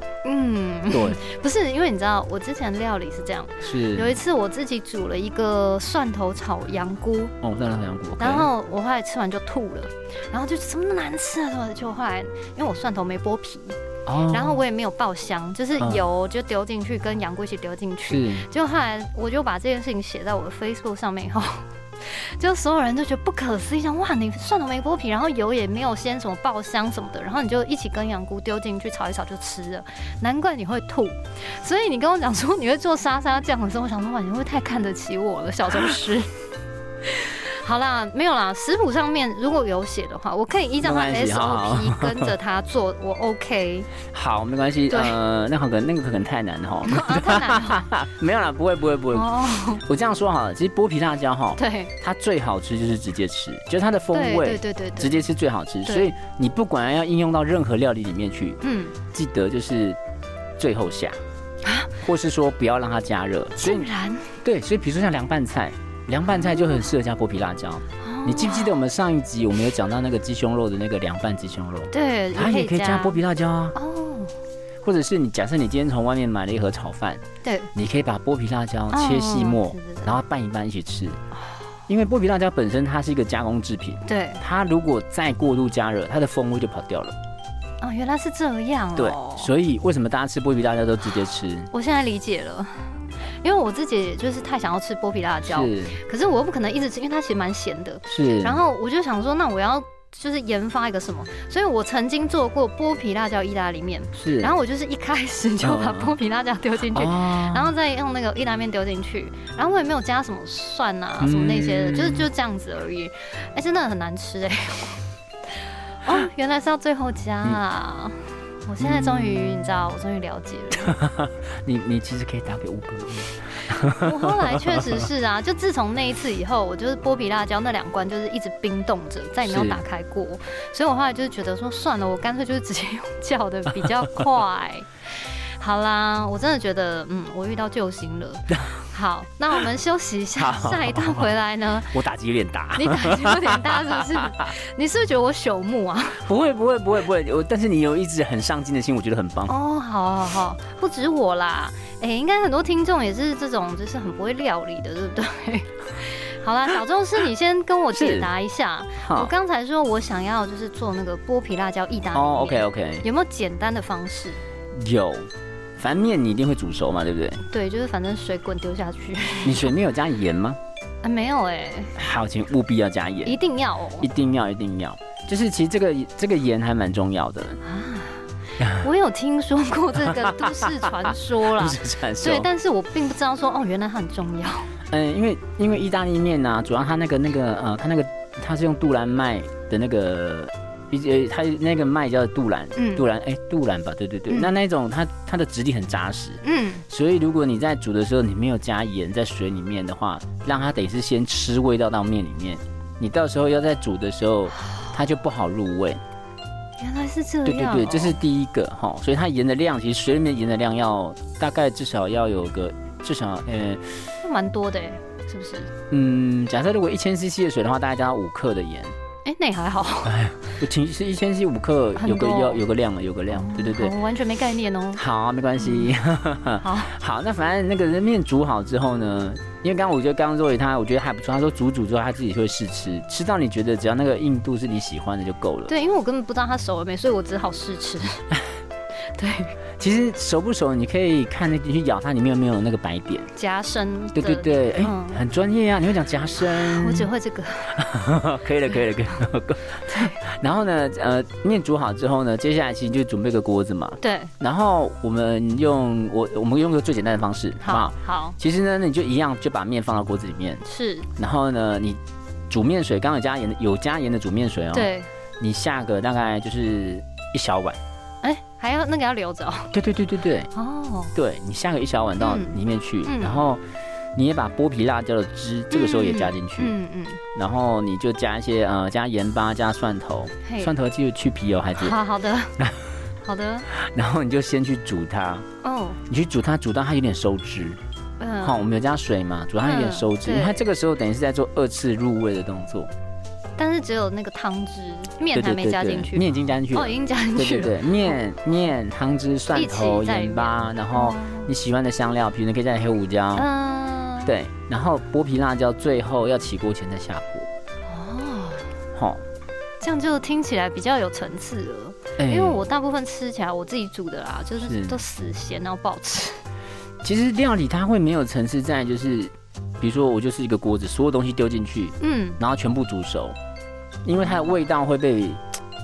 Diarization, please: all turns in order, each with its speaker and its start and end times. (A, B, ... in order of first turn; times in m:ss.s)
0:00.2-0:07.3 A
0:00.9-0:01.2 B
0:03.6-0:04.2 B
0:07.4-0:08.5 B
0:08.2-0:13.8 A
0:14.1-0:14.6 B
0:14.3-0:36.3 A
0:18.1-0:18.5 B
0:37.0-0:43.9 A
0:40.8-0:42.3 B
0:44.1-0:49.3 B
0:44.9-0:45.2 A
0:46.9-0:47.9 A
0:49.1-0:49.8 A
0:49.8-0:58.6 B
0:51.6-0:51.9 A
0:54.1-0:55.2 A
0:55.9-0:56.1 A
0:58.6-0:59.0 A
0:59.1-1:00.0 B
1:00.6-1:01.2 B
1:01.6-1:01.9 A
1:02.0-1:03.9 B
1:03.6-1:04.3 A
1:04.4-1:13.8 B
1:06.3-1:06.8 A
1:08.0-1:08.7 A
1:11.9-1:13.2 A
1:13.8-1:14.3 A
1:14.8-1:17.2 B
1:17.4-1:17.7 A
1:17.8-1:21.2 B
1:18.9-1:20.2 A
1:21.9-1:27.2 B
1:24.1-1:24.4 A
1:27.8-1:29.5 A
1:29.0-1:31.7 B
1:31.7-1:55.0 A
1:35.4-1:36.0 B
1:38.1-1:38.6 B
1:44.2-1:44.5 B
1:45.6-1:46.2 B
1:46.9-1:47.7 B
1:51.2-1:52.3 B
1:56.0-2:01.0 A
1:58.8-1:59.7 B
2:00.8-2:05.0 B
2:04.0-2:22.0 A
2:09.4-2:09.8 B
2:20.4-2:21.3 B
2:21.9-2:24.5 B
2:22.8-2:26.2 A
2:26.2-2:29.5 B
2:29.5-2:44.4 A
2:37.9-2:38.3 B
2:39.0-2:39.3 B
2:42.1-2:43.1 B
2:44.8-2:47.4 B
2:47.5-2:49.7 A
2:49.4-2:50.6 B
2:51.0-2:51.9 A
2:52.0-2:53.4 B
2:53.2-2:54.1 A
2:54.0-2:57.6 B
2:57.6-2:58.3 A
2:58.6-2:58.9 B
2:58.8-3:04.7 A
3:00.0-3:02.5 B
3:04.9-3:26.0 B
3:12.8-3:13.1 A
3:16.4-3:16.8 A
3:26.8-3:28.2 A
3:27.4-3:34.0 B
3:34.2-3:35.7 A
3:35.9-3:38.9 B
3:39.3-3:40.2 A
3:40.0-3:43.9 B
3:42.0-3:42.6 A
3:43.3-3:45.0 A
3:45.0-3:55.7 B
3:45.6-3:45.9 A
3:46.6-3:46.9 A
3:55.7-3:58.3 A
3:59.2-3:59.5 A
3:59.8-4:03.3 B
4:03.4-4:05.2 A
4:04.2-4:07.1 B
4:06.6-4:07.8 A
4:07.7-4:20.6 B
4:09.9-4:10.2 A
4:14.0-4:14.3 A
4:17.6-4:18.4 A
4:20.6-4:21.1 A
4:21.2-4:22.0 B
4:22.5-4:27.8 B
4:24.7-4:25.1 A
4:28.2-4:29.7 A
4:29.7-4:30.5 B
4:30.5-4:31.1 A
4:31.1-4:33.6 B
4:32.2-4:33.4 A
4:34.2-4:36.8 B
4:35.7-4:37.2 A
4:37.3-4:42.0 B
4:40.5-4:40.7 A
4:41.8-4:42.6 A
4:43.2-4:43.7 A
4:43.7-4:45.5 B
4:45.6-4:46.0 A
4:46.0-4:47.8 B
4:48.2-4:48.6 A
4:48.4-4:52.9 B
4:49.6-4:50.6 A
4:53.6-4:58.2 A
4:55.3-5:03.5 B
4:59.5-5:01.5 A
5:03.4-5:04.4 A
5:04.2-5:07.5 B
5:07.9-5:08.7 A
5:09.0-5:09.2 B
5:09.8-5:16.4 A
5:12.2-5:12.7 B
5:14.6-5:15.0 B
5:17.0-5:23.4 B
5:22.0-5:22.4 A
5:24.0-5:25.4 B
5:24.2-5:24.6 A